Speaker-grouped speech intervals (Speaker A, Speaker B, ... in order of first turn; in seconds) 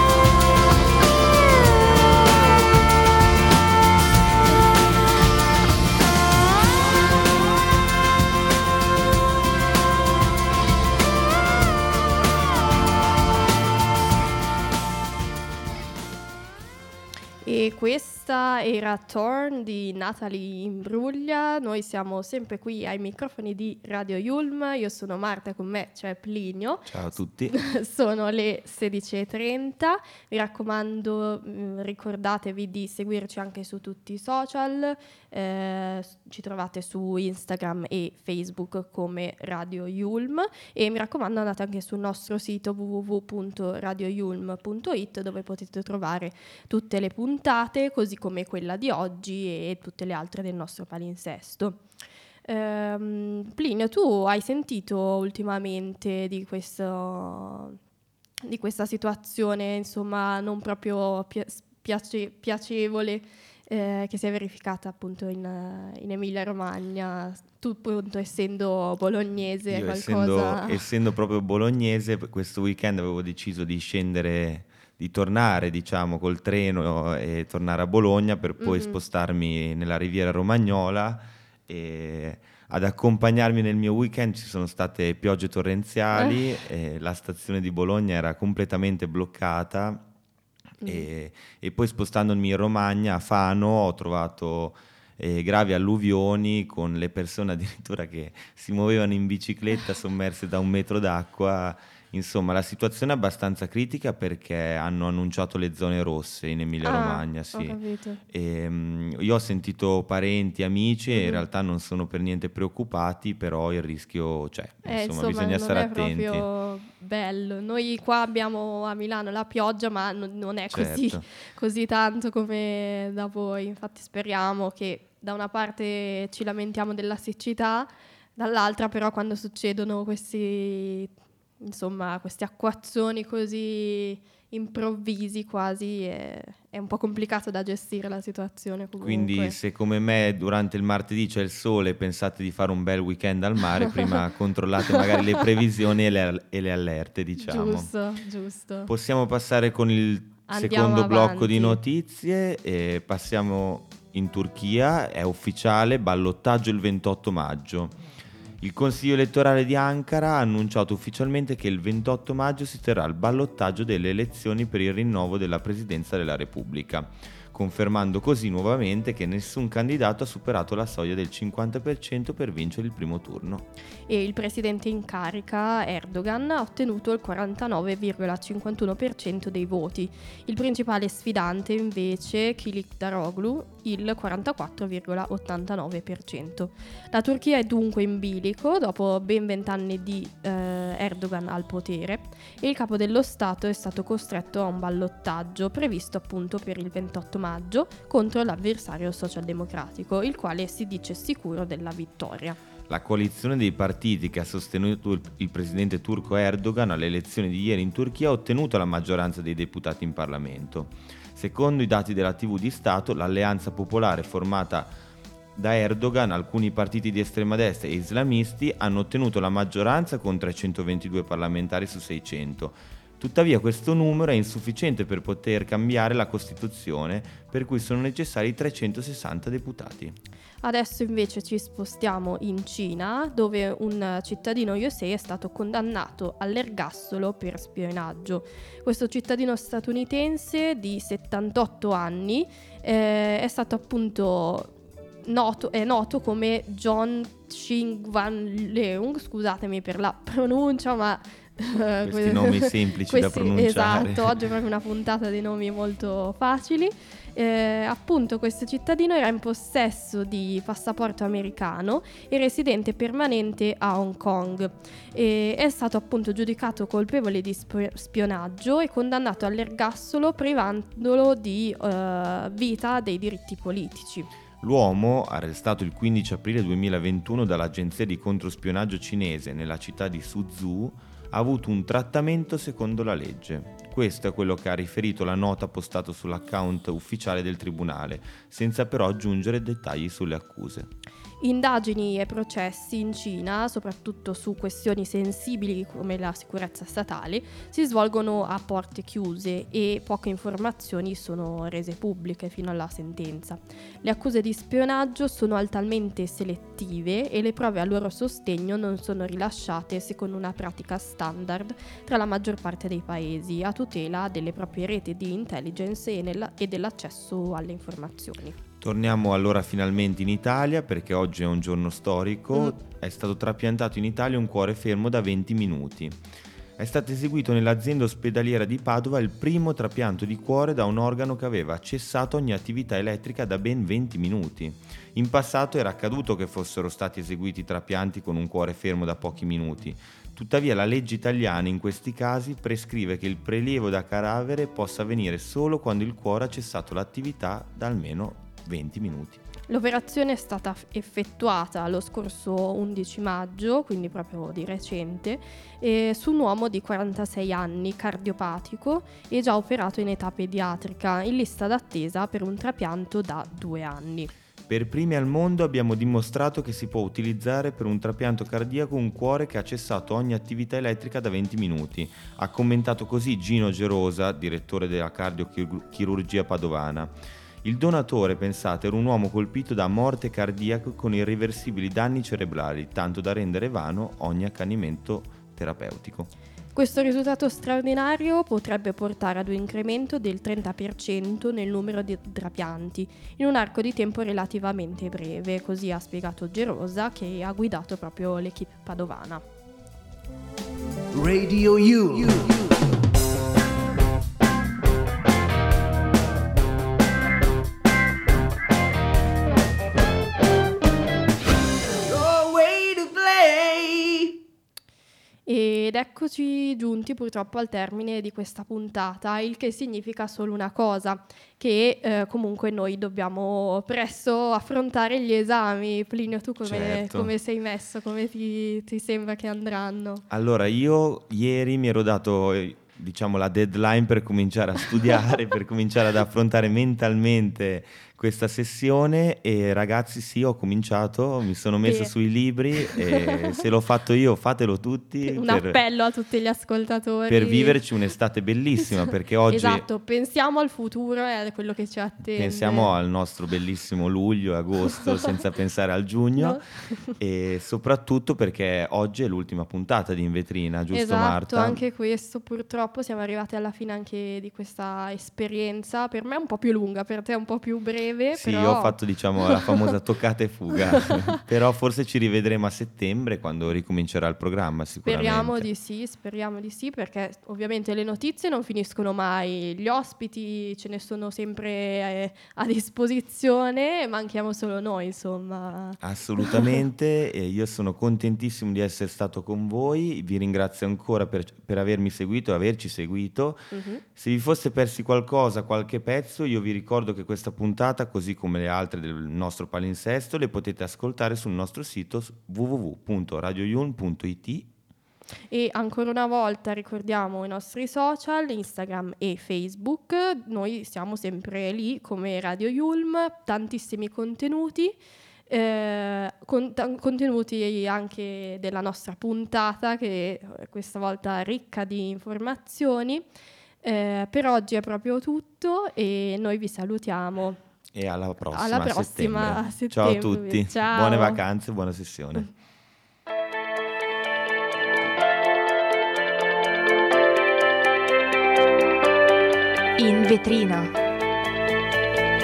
Speaker A: 17.4-26.9, 27.5-51.8, 52.5-57.8, 58.4-70.8, 78.6-79.0, 106.8-108.2, 111.1-111.4, 114.8-139.6, 147.4-148.9, 150.5-151.8, 174.1-202.6, 230.6-244.7, 245.2-274.3, 291.4-318.6, 349.7-364.3, 386.7-399.4, 415.4-430.2, 441.8-442.1, 442.9-443.6, 445.3-447.8, 449.5-452.9, 460.9-469.0, 475.1-486.8, 493.7-494.0, 505.5-515.0, 515.5-523.2, 523.8-527.6, 528.5-531.4, 540.0-540.9
Speaker B: 26.9-27.5, 69.7-90.0, 90.8-116.5, 120.7-121.2, 139.0-147.9, 148.9-157.9, 158.6-173.7, 202.9-214.9, 215.6-230.2, 252.0-254.3, 274.6-290.9, 318.8-326.2, 326.8-349.4, 364.7-386.3, 426.6-427.3, 430.3-445.8, 447.3-449.8, 452.3-456.6, 457.1-461.8, 468.3-475.7, 486.0-504.7, 527.9-532.5
Speaker C: 401.1-402.7, 412.1-414.3